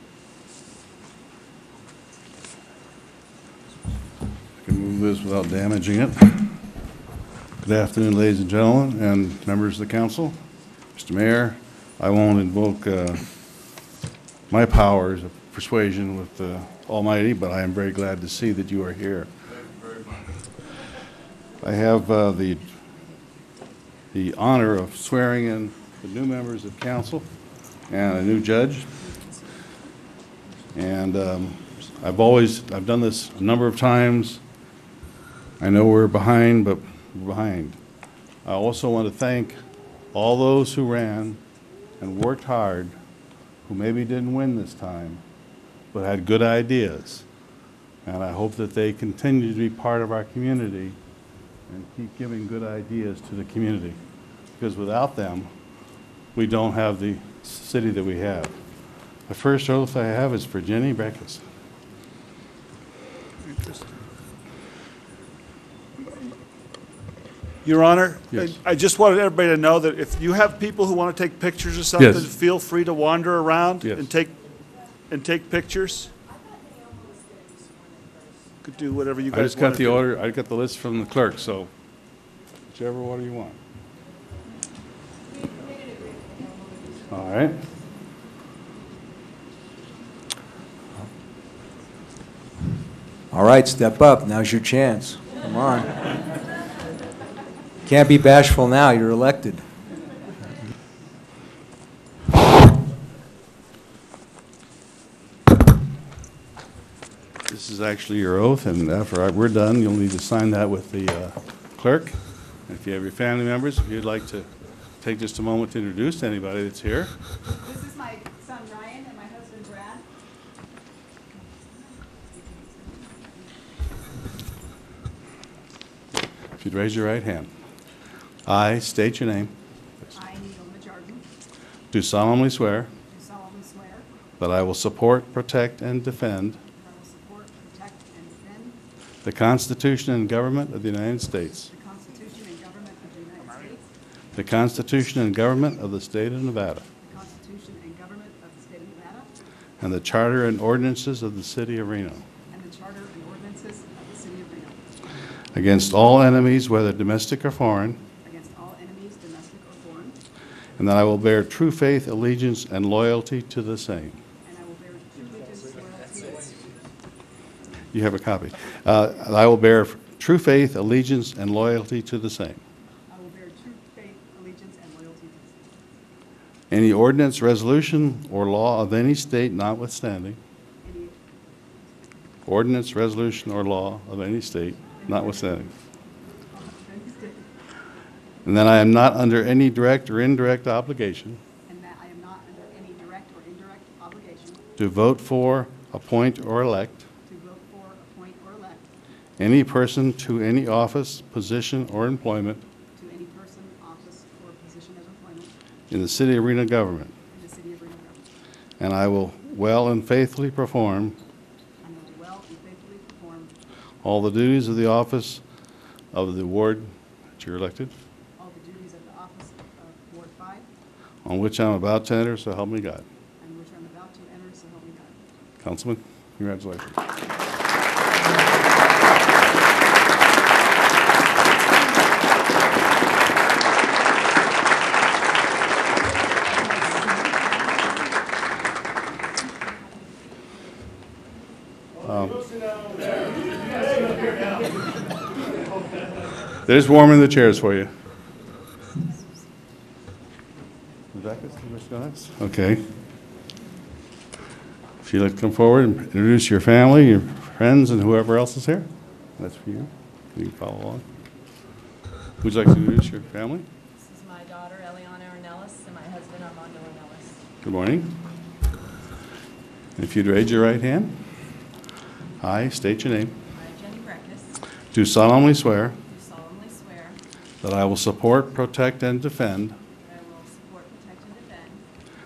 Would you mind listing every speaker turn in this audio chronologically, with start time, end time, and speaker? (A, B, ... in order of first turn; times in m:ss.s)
0:04.6-0:06.5 A
0:07.6-0:10.3 A
0:11.0-0:13.2 A
0:14.5-0:19.3 A
0:21.6-0:22.7 A
0:24.1-0:27.2 A
0:27.9-0:29.0 A
0:30.7-0:34.4 A
0:35.6-0:37.8 A
0:38.4-0:39.6 A
0:40.1-0:41.4 A
0:42.0-0:42.9 A
0:43.6-0:45.2 A
0:45.9-0:47.2 A
0:48.0-0:51.0 A
0:51.7-0:54.0 A
0:54.6-0:55.5 A
0:56.3-0:58.5 A
0:59.3-1:01.4 A
1:03.4-1:03.8 B
1:07.6-1:14.4 B
1:12.0-1:12.3 A
1:15.1-1:16.1 B
1:18.6-1:20.0 B
1:19.3-1:21.7 A
1:22.7-1:23.6 A
1:27.1-1:27.6 A
1:33.3-1:36.2 C
1:37.8-1:39.6 C
1:47.5-1:52.2 A
1:52.7-1:54.5 A
1:55.0-1:57.1 A
1:57.5-2:00.0 D
2:01.4-2:03.5 D
2:06.6-2:07.5 A
2:08.4-2:09.5 A
2:10.1-2:11.2 D
2:11.9-2:12.9 A
2:13.1-2:14.1 D
2:14.4-2:16.6 A
2:16.8-2:18.8 D
2:19.2-2:21.7 A
2:21.7-2:23.9 D
2:24.3-2:26.8 A
2:27.0-2:29.3 D
2:29.8-2:32.2 A
2:32.5-2:34.8 D
2:35.5-2:38.0 A
2:38.2-2:40.2 D
2:40.8-2:44.2 A
2:44.4-2:46.8 D
2:47.9-2:52.6 A
2:53.1-2:55.8 D
2:56.7-3:00.4 A
3:00.8-3:01.2 D
3:02.4-3:05.7 A
3:05.0-3:05.2 D
3:06.5-3:07.5 D
3:08.4-3:11.4 A
3:11.7-3:14.6 D
3:14.8-3:17.0 A
3:17.3-3:18.8 D
3:19.4-3:22.6 A
3:23.0-3:25.5 D
3:25.9-3:27.1 A
3:27.3-3:28.2 D
3:28.8-3:31.2 A
3:31.8-3:33.5 D
3:34.0-3:35.4 A
3:36.1-3:37.9 A
3:38.4-3:40.6 D
3:41.2-3:43.0 A
3:43.4-3:45.2 D
3:45.6-3:47.0 A
3:56.5-3:58.1 D
4:02.0-4:02.5 A
4:06.6-4:07.9 A
4:11.1-4:12.8 A
4:15.0-4:18.9 A
4:19.4-4:21.0 A
4:22.4-4:23.6 A
4:24.0-4:27.4 E
4:27.6-4:28.1 A
4:30.0-4:31.2 A
4:32.4-4:33.4 A
4:33.5-4:34.6 E
4:34.9-4:36.0 A
4:36.1-4:37.2 E
4:37.6-4:39.8 A
4:40.0-4:41.8 E